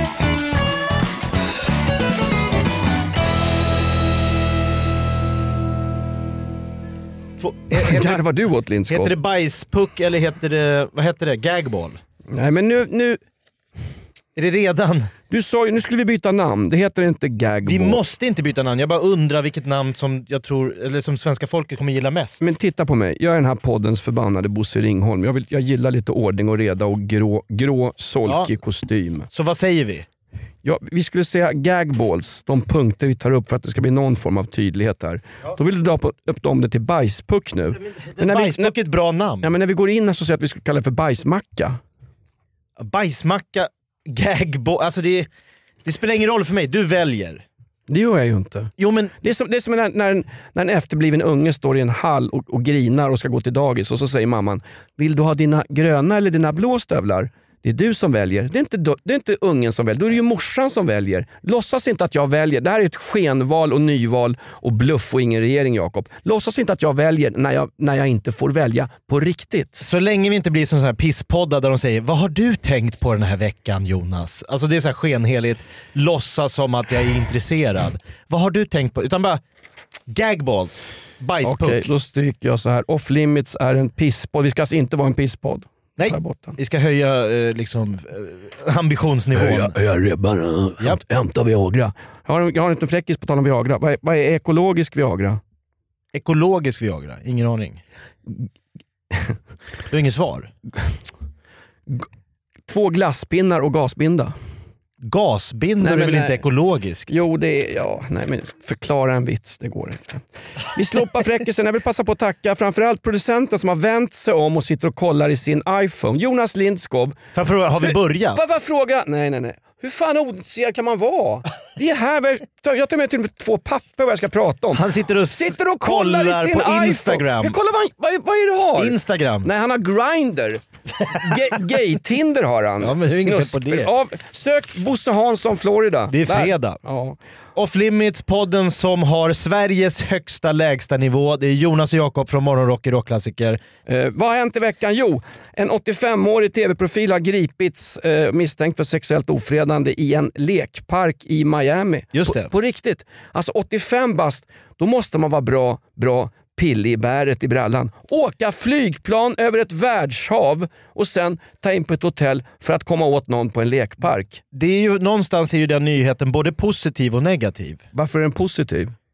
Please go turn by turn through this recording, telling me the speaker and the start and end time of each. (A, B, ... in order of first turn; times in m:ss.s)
0:07.4-0:08.2 A
0:07.7-0:09.1 B
0:08.9-0:12.0 A
0:12.3-0:13.2 B
0:14.4-0:15.1 A
0:15.3-0:18.0 B
0:17.6-0:22.4 A
0:22.4-0:29.3 B
0:28.2-0:28.5 A
0:29.3-0:30.0 A
0:30.6-0:38.7 B
0:38.0-0:39.5 A
0:39.4-0:41.8 B
0:42.8-0:45.3 A
0:45.8-0:47.4 A
0:47.9-1:09.8 B
0:48.8-0:49.2 A
1:09.8-1:19.4 A
1:20.1-1:21.9 A
1:21.4-1:26.6 B
1:26.0-1:29.8 A
1:29.3-1:35.4 B
1:36.1-1:37.8 A
1:39.9-1:40.5 A
1:42.7-1:44.3 B
1:45.0-1:47.2 A
1:45.8-1:46.4 B
1:47.1-1:57.2 B
1:57.3-1:58.4 A
1:57.8-2:17.2 B
2:04.7-2:07.6 A
2:08.8-2:09.5 A
2:12.8-2:13.9 A
2:16.1-2:16.8 A
2:17.6-2:23.6 A
2:23.9-2:44.4 B
2:32.1-2:32.5 A
2:44.5-2:47.8 A
2:47.9-2:48.9 B